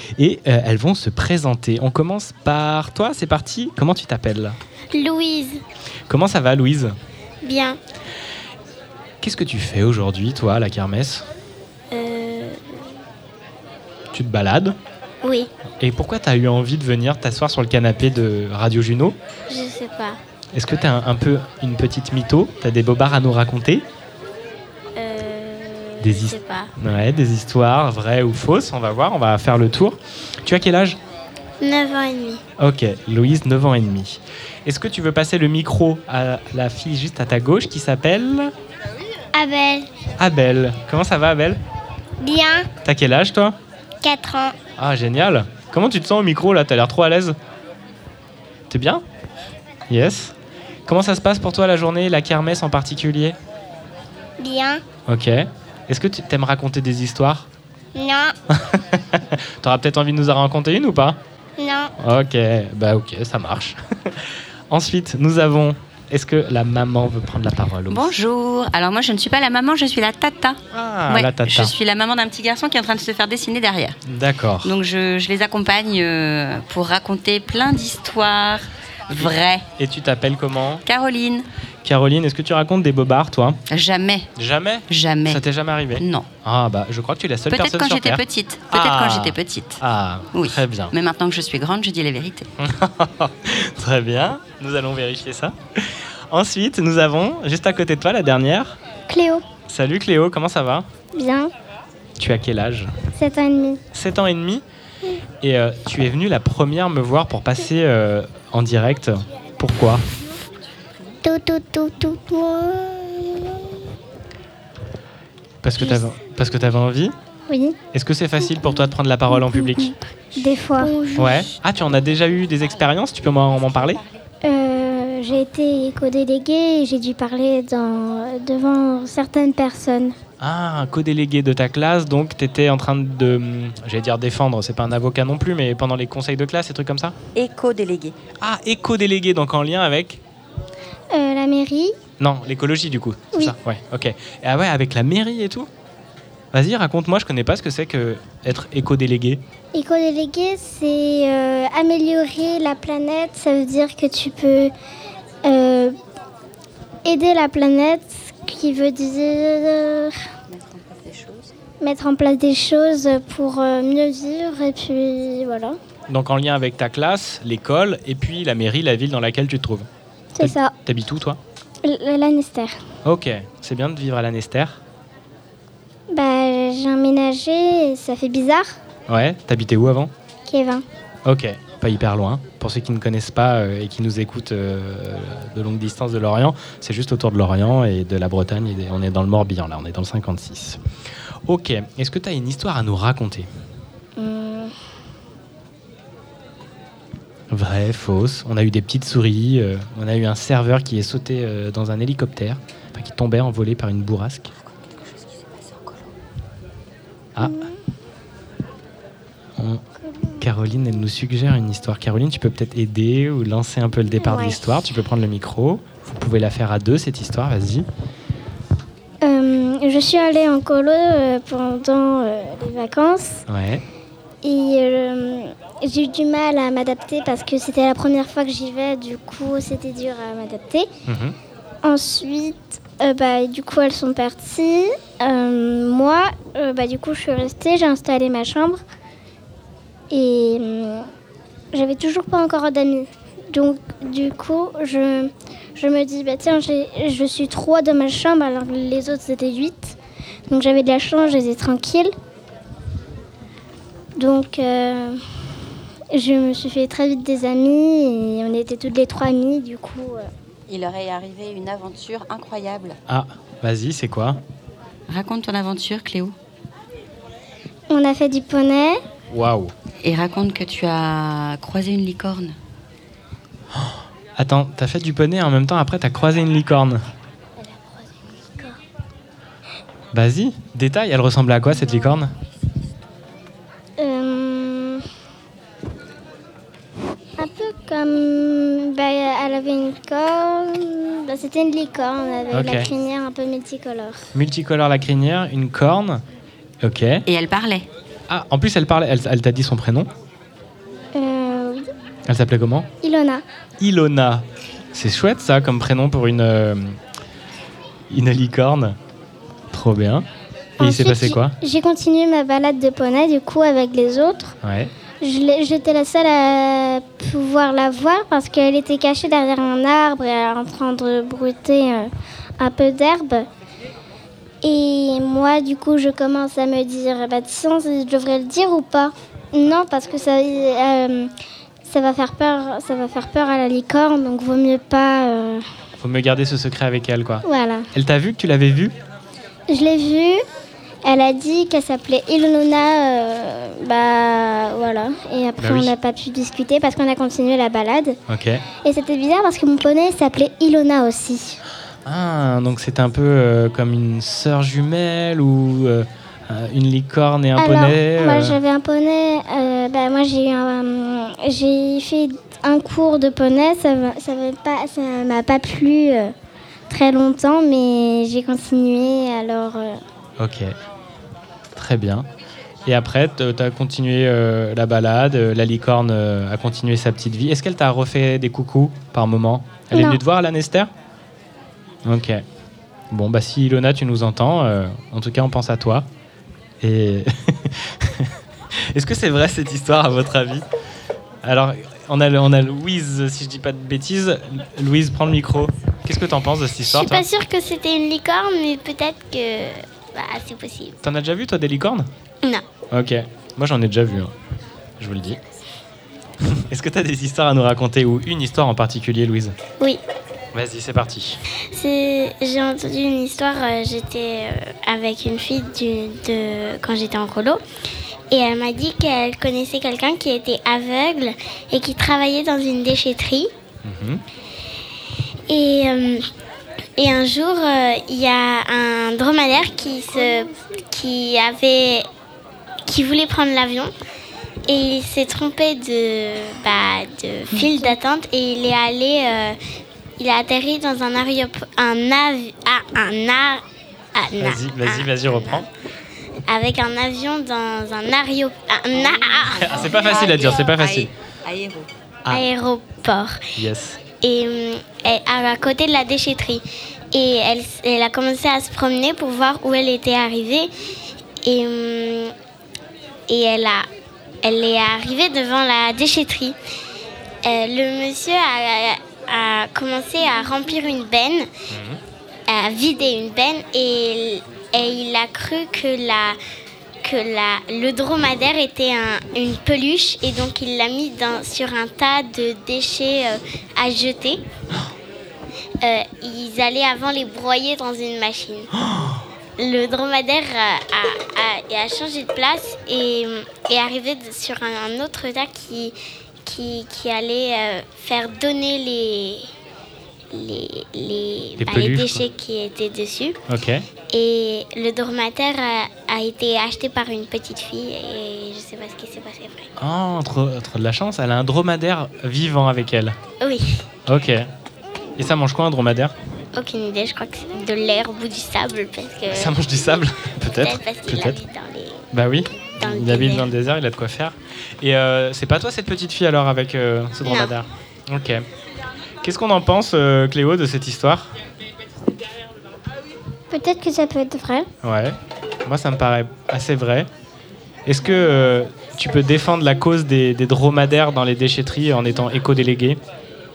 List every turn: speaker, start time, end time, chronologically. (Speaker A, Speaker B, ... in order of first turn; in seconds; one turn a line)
Speaker A: 0.2-4.6
Speaker B: 4.9-5.6
Speaker A: 6.1-7.0
Speaker B: 7.4-7.8
Speaker A: 9.2-11.3
Speaker B: 11.9-12.8
Speaker A: 14.1-14.8
Speaker B: 15.2-15.5
Speaker A: 15.8-19.2
Speaker B: 19.5-20.2
Speaker A: 20.5-23.9
Speaker B: 25.0-26.7
Speaker A: 26.0-31.0
Speaker B: 31.6-32.4
Speaker A: 32.6-38.5
Speaker A: 40.2-41.6
Speaker B: 42.2-42.6
Speaker A: 42.8-43.6
Speaker B: 44.0-44.5
Speaker A: 44.8-47.4
Speaker A: 48.7-49.0
Speaker A: 49.9-50.4
Speaker A: 50.9-53.4
Speaker B: 54.4-54.8
Speaker A: 55.1-57.5
Speaker B: 58.0-58.3
Speaker A: 58.5-61.2
Speaker B: 61.6-61.9
Speaker A: 62.0-68.1
Speaker C: 67.9-74.0
Speaker A: 70.7-71.7
Speaker A: 74.1-74.7
Speaker C: 74.6-79.7
Speaker A: 79.8-80.8
Speaker C: 80.8-81.5
Speaker A: 81.8-83.6
Speaker C: 83.7-84.3
Speaker A: 84.4-90.9
Speaker C: 84.9-85.4
Speaker C: 86.0-86.3
Speaker C: 87.5-89.8
Speaker C: 90.3-92.5
Speaker A: 92.6-98.8
Speaker D: 99.1-99.5
Speaker A: 99.7-100.9
Speaker D: 101.1-101.5
Speaker A: 102.2-102.9
Speaker D: 103.1-103.8
Speaker A: 103.9-104.7
Speaker A: 105.4-110.0
Speaker D: 111.2-113.6
Speaker A: 115.6-117.2
Speaker D: 117.5-117.8
Speaker A: 117.9-120.0
Speaker D: 119.5-119.8
Speaker D: 120.3-121.4
Speaker B: 120.8-121.3
Speaker A: 121.2-124.0
Speaker C: 122.5-124.2
Speaker D: 124.4-130.2
Speaker A: 130.4-137.2
Speaker C: 137.3-138.2
Speaker A: 138.4-140.2
Speaker D: 141.1-142.0
Speaker A: 142.2-145.7
Speaker A: 146.5-149.4
Speaker D: 149.7-154.7
Speaker D: 155.4-156.0
Speaker D: 157.1-160.2
Speaker C: 160.5-161.5
Speaker D: 161.8-165.8
Speaker A: 166.1-169.9
Speaker D: 170.3-170.7
Speaker A: 170.4-171.4
Speaker D: 171.8-172.8
Speaker A: 173.0-174.8
Speaker D: 176.1-178.7
Speaker A: 179.1-180.1
Speaker D: 180.5-180.8
Speaker A: 181.2-190.8
Speaker A: 191.5-193.5
Speaker D: 194.2-194.7
Speaker A: 197.5-204.5
Speaker C: 204.6-206.1
Speaker A: 207.4-207.7
Speaker D: 207.4-207.7
Speaker A: 209.6-209.8
Speaker A: 210.4-217.9
Speaker D: 214.2-214.6
Speaker D: 219.2-223.4
Speaker A: 223.5-223.8
Speaker D: 224.4-230.9
Speaker A: 231.1-231.4
Speaker D: 231.8-238.8
Speaker D: 240.1-241.1
Speaker D: 241.7-250.0
Speaker D: 250.5-252.1
Speaker D: 254.2-255.2
Speaker D: 256.1-260.3
Speaker C: 260.7-263.0
Speaker A: 263.1-264.4
Speaker C: 265.1-266.4
Speaker D: 267.9-269.0
Speaker A: 269.3-269.7
Speaker C: 270.0-272.6
Speaker A: 273.8-277.0
Speaker A: 280.1-282.3
Speaker D: 284.0-285.1
Speaker D: 287.4-294.3
Speaker A: 292.5-292.9
Speaker A: 294.3-296.2
Speaker A: 296.8-297.2
Speaker C: 297.3-297.9
Speaker A: 298.3-300.1
Speaker D: 301.1-301.9
Speaker A: 302.3-302.9
Speaker D: 303.0-303.4
Speaker A: 303.8-307.0
Speaker A: 308.1-309.0
Speaker A: 309.7-310.3
Speaker A: 310.8-311.6
Speaker D: 310.8-314.6
Speaker A: 314.6-314.9
Speaker D: 315.2-323.5
Speaker D: 324.6-331.3
Speaker D: 331.9-335.7
Speaker A: 336.0-338.9
Speaker D: 337.4-337.9
Speaker D: 339.7-340.4
Speaker D: 341.0-348.2
Speaker A: 345.6-345.9
Speaker A: 348.3-348.6
Speaker D: 348.8-351.6
Speaker A: 352.1-358.6
Speaker D: 357.6-366.3
Speaker D: 366.9-370.0
Speaker A: 370.4-370.8
Speaker A: 371.8-372.3
Speaker A: 372.9-380.9
Speaker D: 379.9-380.2
Speaker A: 382.1-382.4
Speaker A: 383.1-386.1
Speaker A: 386.8-388.3
Speaker A: 388.9-390.6
Speaker A: 391.4-397.3
Speaker B: 396.8-401.0
Speaker A: 401.0-402.1
Speaker A: 402.9-404.3
Speaker A: 405.0-405.4
Speaker A: 406.5-409.6
Speaker A: 410.5-411.4
Speaker B: 411.7-417.6
Speaker B: 418.3-423.5
Speaker A: 423.8-424.2
Speaker B: 425.5-426.3
Speaker B: 427.0-432.1
Speaker D: 430.2-430.6
Speaker B: 432.9-433.9
Speaker B: 434.7-439.6
Speaker D: 437.6-437.9
Speaker B: 440.2-443.6
Speaker B: 444.1-445.7
Speaker A: 444.4-445.7
Speaker B: 446.5-450.2
Speaker C: 448.9-451.9
Speaker A: 449.6-451.1
Speaker B: 452.3-453.5
Speaker A: 453.6-454.0
Speaker B: 454.2-460.7
Speaker B: 461.4-462.3
Speaker B: 463.3-463.9
Speaker B: 464.4-466.6
Speaker B: 467.4-471.5
Speaker A: 471.7-472.0
Speaker B: 472.5-476.4
Speaker B: 477.0-484.4
Speaker B: 485.8-488.7
Speaker B: 489.6-499.5
Speaker B: 500.3-503.4
Speaker A: 501.6-502.2
Speaker A: 503.5-503.9
Speaker B: 504.1-509.7
Speaker A: 509.8-513.2
Speaker B: 513.4-513.9
Speaker A: 514.1-514.5
Speaker A: 515.2-516.1
Speaker B: 516.5-519.6
Speaker A: 519.3-521.4
Speaker B: 520.5-522.1
Speaker A: 522.1-528.5
Speaker B: 522.8-523.5
Speaker B: 527.2-527.5
Speaker A: 529.2-531.3
Speaker D: 533.5-534.7
Speaker A: 534.8-537.1
Speaker A: 537.9-543.0